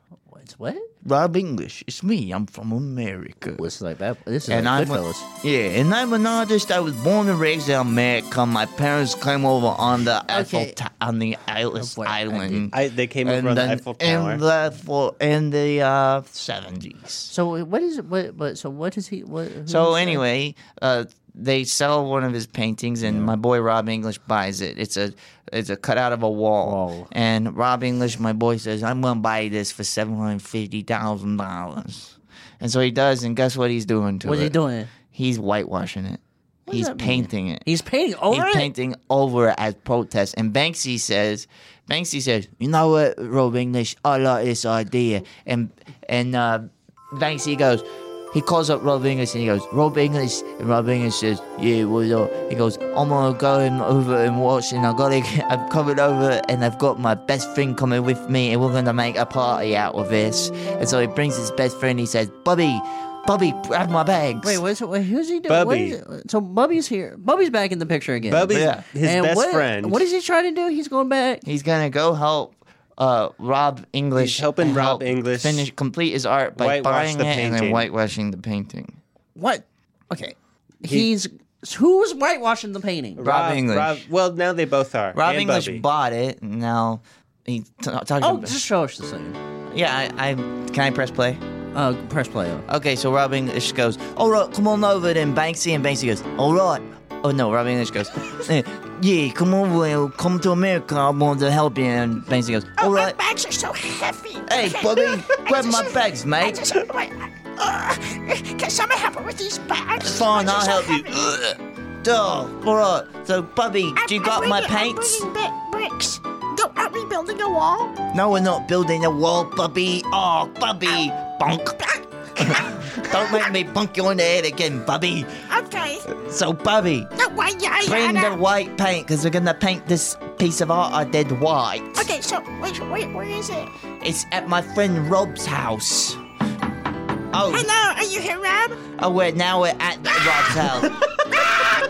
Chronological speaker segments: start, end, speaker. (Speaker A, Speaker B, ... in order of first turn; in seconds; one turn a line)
Speaker A: 0.3-0.9
Speaker B: 1.0-3.6
Speaker A: 3.5-5.3
Speaker B: 4.5-17.3
Speaker A: 10.3-10.8
Speaker A: 11.8-12.7
Speaker C: 12.7-14.4
Speaker A: 17.3-20.2
Speaker B: 19.7-34.5
Speaker A: 23.0-23.3
Speaker A: 26.6-27.1
Speaker A: 34.2-34.9
Speaker B: 35.1-37.6
Speaker A: 36.7-38.7
Speaker B: 38.3-64.6
Speaker A: 64.4-71.4
Speaker C: 65.5-66.0
Speaker C: 68.3-70.0
Speaker B: 68.5-68.8
Speaker B: 71.4-79.0
Speaker C: 74.2-75.7
Speaker C: 76.6-77.9
Speaker A: 79.3-83.2
Speaker C: 80.8-81.1
Speaker C: 83.2-85.8
Speaker B: 83.2-84.0
Speaker B: 85.1-88.6
Speaker A: 88.2-89.4
Speaker B: 89.7-91.4
Speaker A: 91.7-92.7
Speaker B: 92.7-103.2
Speaker D: 102.8-111.2
Speaker B: 104.5-106.7
Speaker B: 110.0-115.2
Speaker D: 114.0-118.0
Speaker B: 118.1-125.5
Speaker D: 125.5-126.1
Speaker B: 126.1-127.1
Speaker D: 127.2-128.4
Speaker B: 127.8-132.1
Speaker D: 132.0-133.7
Speaker B: 134.0-136.2
Speaker B: 137.3-137.7
Speaker D: 137.5-138.8
Speaker B: 138.9-141.6